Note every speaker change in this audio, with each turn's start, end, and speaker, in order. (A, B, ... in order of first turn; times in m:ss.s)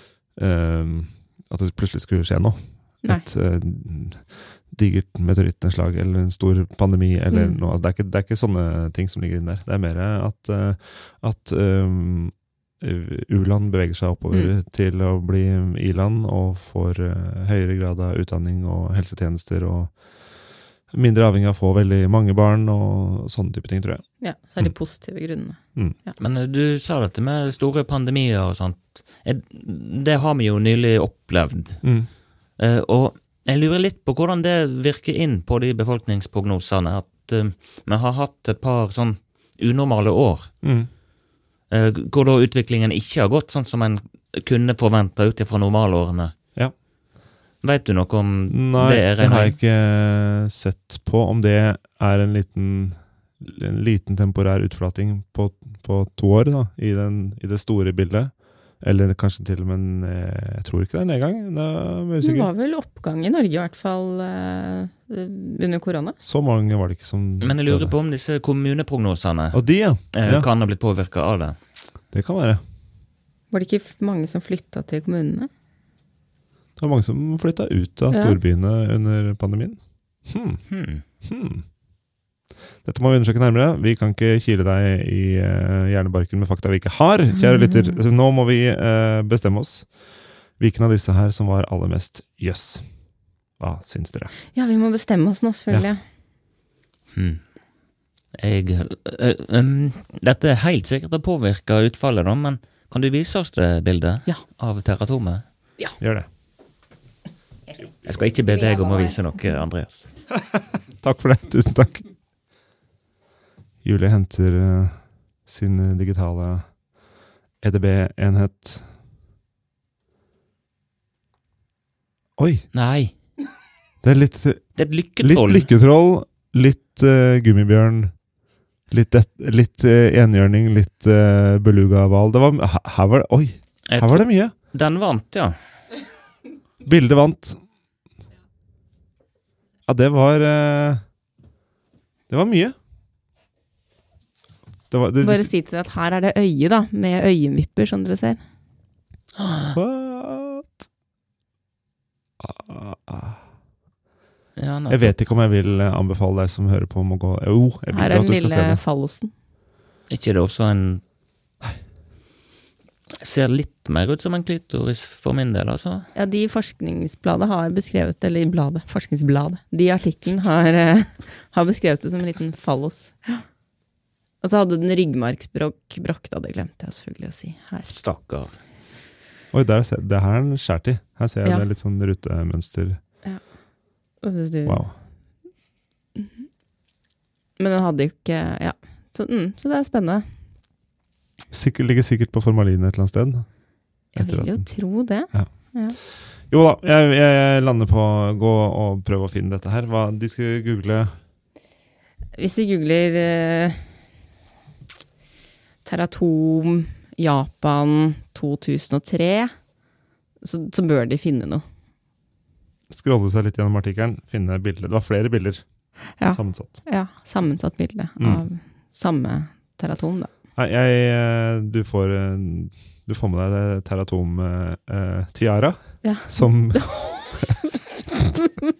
0:00.4-0:24.0 A
0:07.3-0:07.6 B
0:24.2-0:26.1 B
0:26.2-0:31.8 C
0:31.8-0:32.1 A
0:32.6-0:40.5 C
0:40.6-0:40.9 A
0:41.7-0:46.3 C
0:47.6-0:49.6 C
0:48.5-1:02.5 A
1:02.2-1:06.2 B
1:06.2-1:07.9 A
1:07.4-1:11.6 C
1:09.5-1:10.5 A
1:12.1-1:12.6 A
1:13.5-1:15.5 B
1:16.8-1:20.6 A
1:18.1-1:18.4 B
1:20.7-1:21.0 C
1:21.2-1:21.6 A
1:22.8-1:29.9 A
1:27.4-1:28.0 B
1:30.6-1:32.9 A
1:33.6-1:34.3 A
1:34.5-1:36.0 B
1:37.1-1:37.4 C
1:38.3-1:45.4 C
1:46.0-1:46.3 A
1:48.0-1:50.1 C
1:50.5-1:52.0 A
1:53.8-1:56.8 A
1:57.6-1:58.9 A
2:02.4-2:02.7 A
2:02.7-2:03.1 C
2:04.0-2:08.1 A
2:04.8-2:05.7 C
2:08.9-2:14.5 A
2:13.9-2:15.5 C
2:16.8-2:17.6 A
2:19.9-2:21.0 A
2:22.3-2:22.7 A
2:24.9-2:25.5 A
2:25.2-2:28.4 B
2:29.4-2:29.8 C
2:29.7-2:30.8 A
2:32.4-2:33.4 A
2:34.6-2:35.1 C
2:34.9-2:38.8 A
2:37.9-2:39.3 B
2:40.1-2:41.0 C
2:43.2-2:46.1 C
2:46.1-2:53.4 B
2:54.4-2:57.9 B
2:57.8-2:58.5 C
2:59.5-3:03.0 A
3:04.2-3:04.9 B
3:04.6-3:04.9 A
3:07.6-3:10.3 B
3:11.5-3:13.5 A
3:14.1-3:21.1 A
3:14.1-3:16.0 B
3:22.4-3:23.9 B
3:25.8-3:29.5 B
3:30.4-3:31.6 B
3:32.9-3:36.8 A
3:36.2-3:40.3 B
3:38.2-3:38.4 A
3:40.6-3:48.4 A
3:46.0-3:47.6 B